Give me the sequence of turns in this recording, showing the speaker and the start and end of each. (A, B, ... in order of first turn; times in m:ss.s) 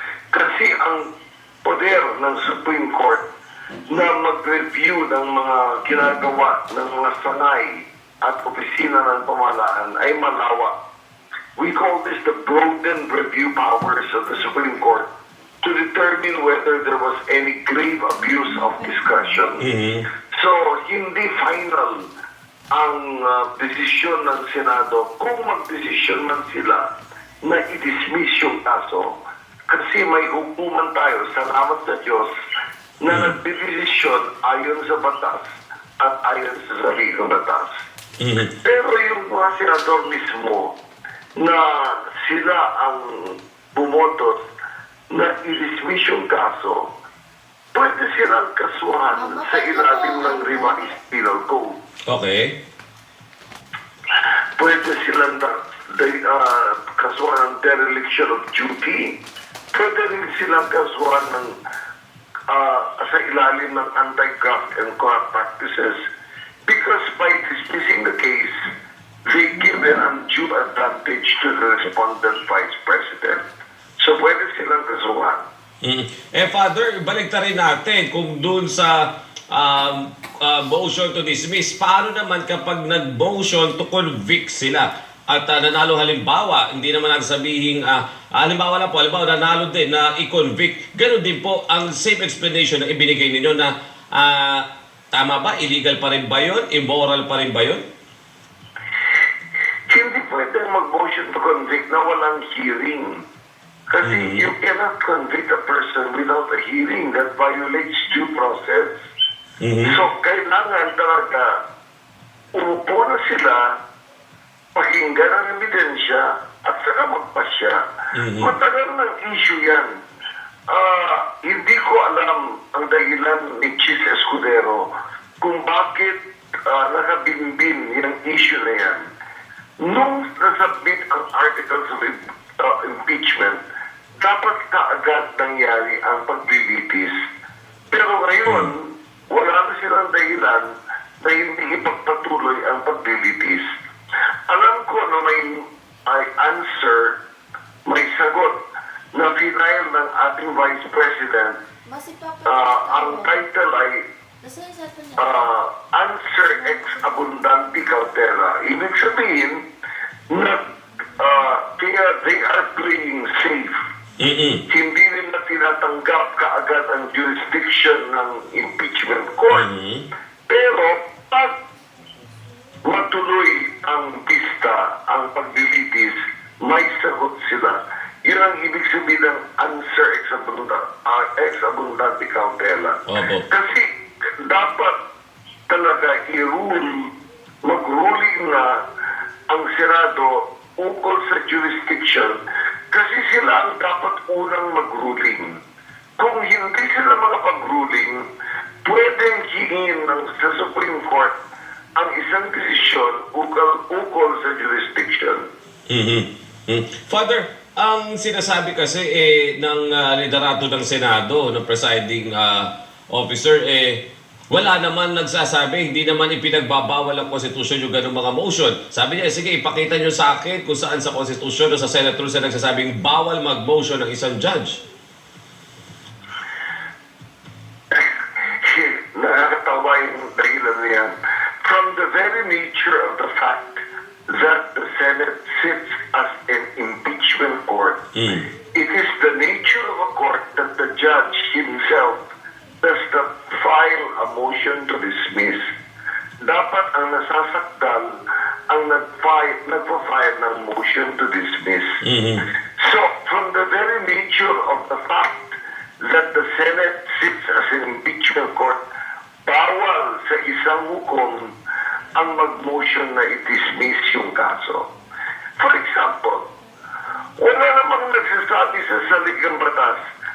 0:00.3-0:01.1 A
0:01.6-0:03.2 A
0:03.9-0:10.7 A
0:11.6-0:15.1 A
0:15.6-0:19.6 A
0:19.6-0:20.0 B
0:20.3-0:22.1 A
0:22.7-0:26.9 A
0:27.4-0:29.2 A
0:29.7-0:32.3 A
0:33.0-0:35.4 A
0:33.1-0:33.4 B
0:36.0-0:37.7 A
0:38.2-0:38.5 B
0:38.6-0:40.7 A
0:41.4-0:44.4 A
0:45.1-0:46.9 A
0:47.7-0:51.8 A
0:49.1-0:50.9 C
0:52.1-0:52.6 B
0:54.6-0:59.2 A
0:59.7-1:01.6 A
1:02.5-1:06.0 A
1:06.7-1:08.7 A
1:09.3-1:13.4 A
1:14.0-1:15.4 A
1:15.8-1:37.8 B
1:39.9-1:43.2 A
1:43.9-1:49.0 A
1:44.0-1:44.5 B
1:49.6-1:50.0 B
1:49.8-1:51.6 A
1:52.6-1:53.8 A
1:54.8-1:57.8 A
1:58.1-1:58.5 B
1:58.4-2:00.0 A
2:00.7-2:04.9 A
2:05.4-2:09.1 A
2:09.8-2:13.6 A
2:14.2-2:17.1 A
2:17.9-2:23.6 A
2:24.5-2:27.2 A
2:27.8-2:28.6 A
2:29.1-2:31.6 A
2:31.8-2:33.4 C
2:32.4-2:34.1 A
2:34.4-2:35.5 C
2:35.2-2:39.6 A
2:36.4-2:37.7 C
2:40.3-2:40.6 A
2:41.2-2:43.8 A
2:44.2-2:44.6 B
2:44.7-2:49.7 A
2:49.5-2:50.0 B
2:50.5-2:51.5 A
2:52.8-3:05.0 A
3:03.1-3:03.5 B
3:05.7-3:07.1 A
3:07.6-3:08.8 A
3:09.5-3:12.4 A
3:12.9-3:15.6 A
3:16.2-3:18.3 A
3:18.8-3:21.3 A
3:22.0-3:25.5 A
3:25.9-3:34.0 B
3:34.5-3:44.8 B
3:47.9-3:58.0 A
3:58.2-3:58.4 B
3:58.7-4:02.2 A
4:02.8-4:05.6 A
4:06.4-4:11.9 A
4:12.0-4:12.4 B
4:12.8-4:18.8 A
4:19.4-4:21.5 A
4:22.1-4:24.8 A
4:25.6-4:26.4 A
4:27.4-4:30.0 A